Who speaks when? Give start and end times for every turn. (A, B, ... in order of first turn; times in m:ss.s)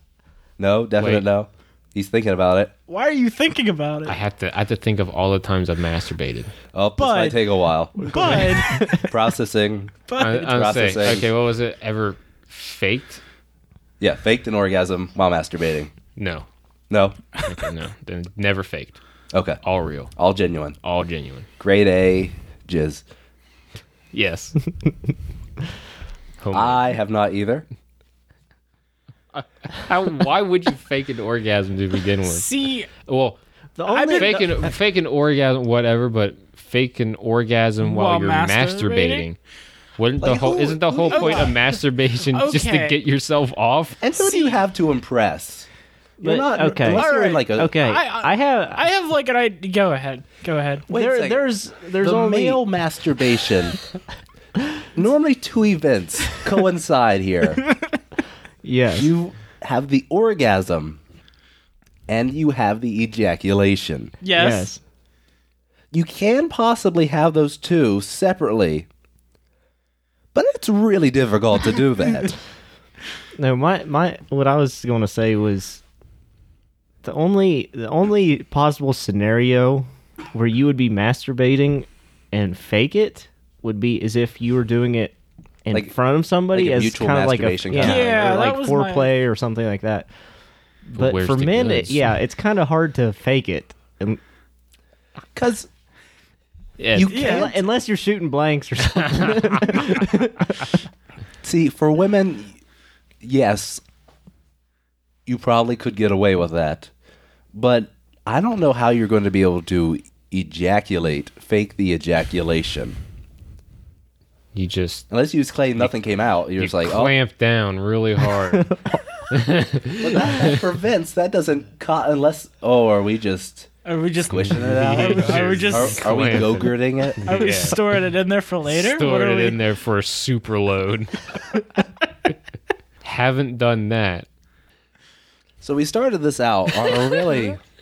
0:00.6-0:02.7 A
0:01.0-0:01.2 B
0:02.9-0:04.1 C
0:04.1-0:06.5 B
0:06.7-0:11.3 A
0:07.0-0:07.4 C
0:08.0-0:09.1 D
0:08.0-0:09.0 C
0:10.1-0:10.4 C
0:10.2-0:13.2 B
0:14.0-0:15.9 A
0:16.2-0:16.4 B
0:16.9-0:17.2 A
0:17.4-0:19.0 B
0:19.3-0:19.6 A
0:19.6-0:20.1 B
0:20.2-0:20.8 A
0:20.8-0:21.5 B
0:21.6-0:23.0 A
0:24.1-0:24.7 B
0:26.4-0:26.8 B
0:26.5-0:27.6 A
0:29.3-0:33.4 B
0:32.2-0:32.9 C
0:33.8-0:34.7 D
0:33.9-0:34.4 C
0:34.1-0:39.4 B
0:37.8-0:39.2 C
0:40.0-0:44.0 B
0:40.2-0:41.5 A
0:41.1-0:41.6 C
0:42.3-0:43.0 C
0:44.0-0:45.7 A
0:44.2-0:44.6 C
0:46.2-0:48.8 D
0:46.2-0:47.7 A
0:46.8-0:50.8 C
0:50.9-0:51.5 A
0:50.9-0:52.6 D
0:52.0-0:53.8 A
0:54.9-0:57.6 A
0:58.6-0:59.1 D
0:59.0-1:01.0 A
1:02.1-1:04.1 A
1:04.2-1:04.7 C
1:04.3-1:04.8 D
1:05.9-1:08.9 A
1:10.3-1:12.3 A
1:13.4-1:15.8 D
1:17.0-1:25.1 D
1:25.6-1:30.1 D
1:26.5-1:28.2 A
1:27.8-1:29.1 C
1:30.9-1:34.2 D
1:31.0-1:32.1 B
1:35.3-1:35.7 A
1:36.8-1:37.2 B
1:36.9-1:37.5 A
1:37.1-1:37.5 C
1:37.1-1:40.8 D
1:39.0-1:39.9 B
1:41.4-1:42.6 A
1:43.2-1:43.8 A
1:45.3-1:46.9 A
1:47.5-1:53.0 A
1:54.5-1:55.1 B
1:55.1-1:57.1 A
1:55.8-2:00.6 B
1:58.5-1:59.0 D
2:00.0-2:03.7 A
2:03.8-2:06.4 C
2:04.3-2:07.5 A
2:04.5-2:08.0 B
2:07.2-2:09.6 C
2:08.7-2:11.3 B
2:13.0-2:14.3 B
2:15.6-2:17.6 A